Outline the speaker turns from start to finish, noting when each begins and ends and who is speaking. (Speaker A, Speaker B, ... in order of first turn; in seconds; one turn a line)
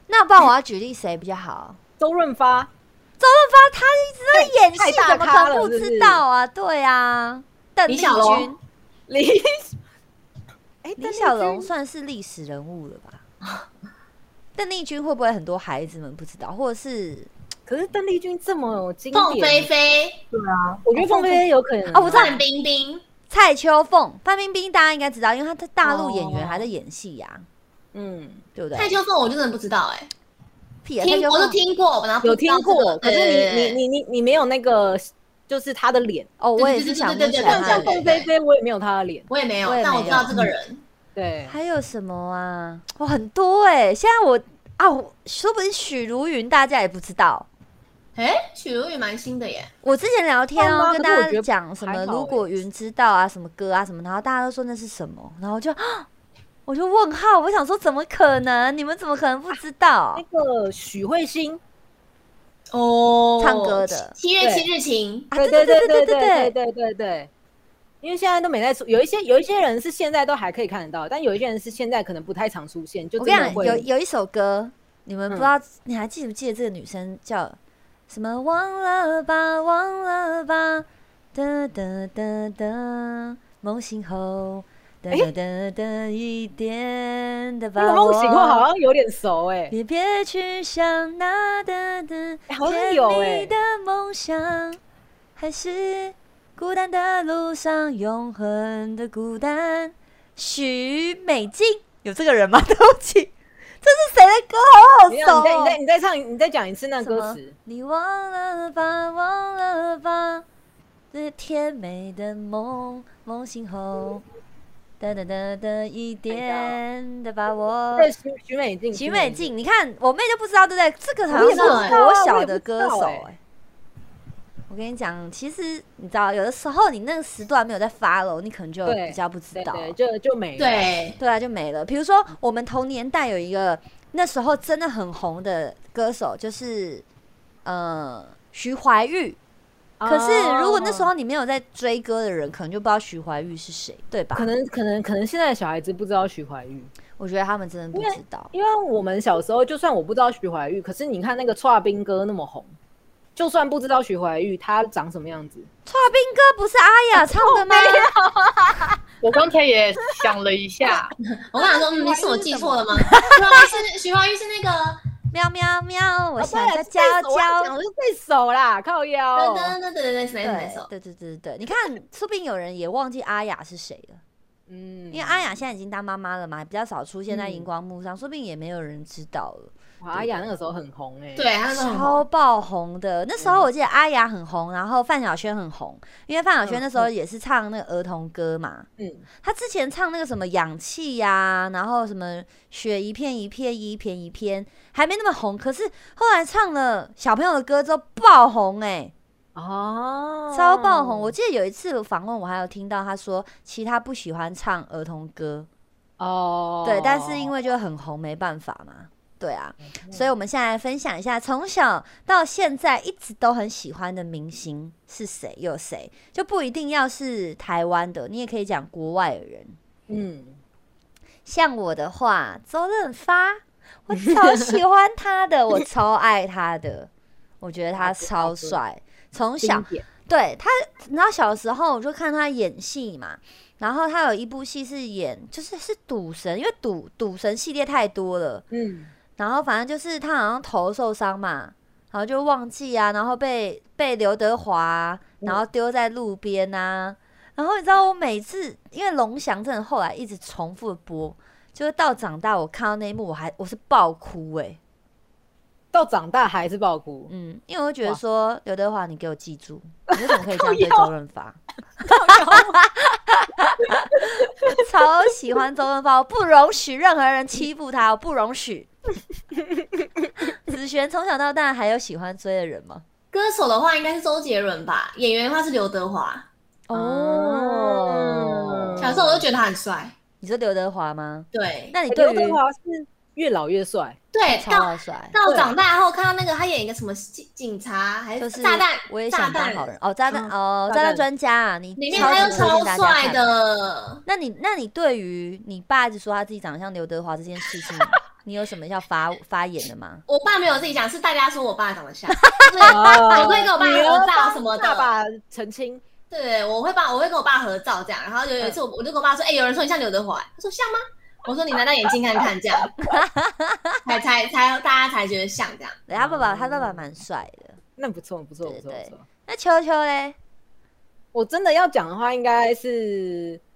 Speaker A: 0.1-1.8
Speaker B: 2.0-2.7
Speaker A: 3.2-8.6
Speaker B: 4.3-6.2
Speaker C: 7.9-8.5
Speaker B: 9.1-9.8
Speaker B: 10.8-11.7
Speaker A: 11.0-13.2
Speaker A: 14.6-17.3
Speaker B: 17.7-19.7
Speaker C: 19.1-20.2
Speaker D: 20.3-20.8
Speaker B: 20.8-22.4
Speaker A: 21.0-22.4
Speaker C: 22.1-23.0
Speaker A: 23.3-27.5
Speaker B: 25.8-26.7
Speaker B: 27.9-28.4
Speaker A: 28.6-29.0
Speaker C: 28.7-30.1
Speaker A: 30.8-31.6
Speaker C: 31.0-33.8
Speaker B: 32.2-36.3
Speaker A: 36.4-38.0
Speaker C: 36.6-38.3
Speaker B: 37.4-39.3
Speaker C: 39.3-40.8
Speaker A: 39.6-40.4
Speaker B: 40.1-40.5
Speaker B: 41.1-41.6
Speaker A: 41.5-47.5
Speaker C: 48.1-49.7
Speaker A: 49.8-56.1
Speaker B: 50.6-52.5
Speaker A: 56.7-60.2
Speaker B: 60.1-61.6
Speaker C: 62.7-65.3
Speaker A: 63.4-64.2
Speaker B: 64.4-64.7
Speaker A: 65.3-66.5
Speaker B: 65.3-67.3
Speaker B: 68.0-73.9
Speaker A: 73.2-77.6
Speaker A: 78.1-88.7
Speaker B: 87.8-89.7
Speaker A: 89.7-94.8
Speaker B: 92.5-93.5
Speaker A: 95.4-105.8
Speaker B: 105.1-107.5
Speaker A: 107.0-110.5
Speaker A: 111.1-114.2
Speaker A: 115.0-118.1
Speaker B: 116.3-116.8
Speaker B: 118.0-119.5
Speaker A: 118.9-123.4
Speaker B: 121.3-123.3
Speaker C: 121.3-122.0
Speaker A: 124.7-130.0
Speaker B: 128.8-130.9
Speaker C: 130.6-131.2
Speaker A: 131.2-137.1
Speaker A: 137.7-139.4
Speaker B: 140.0-141.1
Speaker A: 140.1-144.5
Speaker B: 144.3-146.9
Speaker A: 147.2-148.5
Speaker B: 147.9-152.7
Speaker B: 153.4-155.7
Speaker A: 155.9-158.1
Speaker B: 157.2-159.0
Speaker D: 159.2-161.2
Speaker C: 161.3-165.0
Speaker B: 161.6-163.3
Speaker A: 163.0-163.4
Speaker A: 165.3-167.8
Speaker B: 166.4-169.8
Speaker C: 169.3-170.9
Speaker A: 170.4-174.2
Speaker B: 174.7-175.6
Speaker A: 175.1-180.5
Speaker B: 177.3-177.7
Speaker B: 180.0-181.5
Speaker C: 181.4-182.2
Speaker A: 181.7-188.9
Speaker B: 183.4-183.7
Speaker B: 186.7-187.1
Speaker B: 189.0-189.2
Speaker A: 189.4-199.1
Speaker B: 199.6-201.3
Speaker A: 200.5-205.7
Speaker B: 206.2-207.5
Speaker A: 206.8-219.8
Speaker B: 210.0-210.3
Speaker B: 220.1-220.6
Speaker A: 221.4-227.1
Speaker B: 224.3-224.6
Speaker A: 227.6-238.7
Speaker B: 228.0-228.8
Speaker B: 229.6-230.1
Speaker B: 238.7-239.1
Speaker A: 239.4-254.8
Speaker B: 255.9-257.3
Speaker A: 257.3-268.9
Speaker B: 260.1-261.1
Speaker B: 262.0-262.8
Speaker A: 270.4-273.1
Speaker C: 273.3-276.5
Speaker A: 276.9-279.4
Speaker B: 276.9-279.4
Speaker C: 279.0-280.1
Speaker A: 280.4-282.6
Speaker C: 281.5-281.9
Speaker B: 282.1-284.2
Speaker C: 284.3-289.9
Speaker A: 284.5-285.4
Speaker B: 285.4-285.8
Speaker A: 288.4-293.6
Speaker B: 290.3-291.2
Speaker C: 292.0-294.2
Speaker B: 292.1-292.9
Speaker A: 294.3-300.2
Speaker C: 300.3-305.1
Speaker A: 302.4-303.6
Speaker B: 302.9-306.0
Speaker C: 306.3-313.0
Speaker A: 313.1-314.0
Speaker C: 314.1-316.0
Speaker A: 316.1-317.8
Speaker B: 316.1-317.1
Speaker B: 318.0-319.2
Speaker A: 318.6-320.4
Speaker B: 321.3-323.6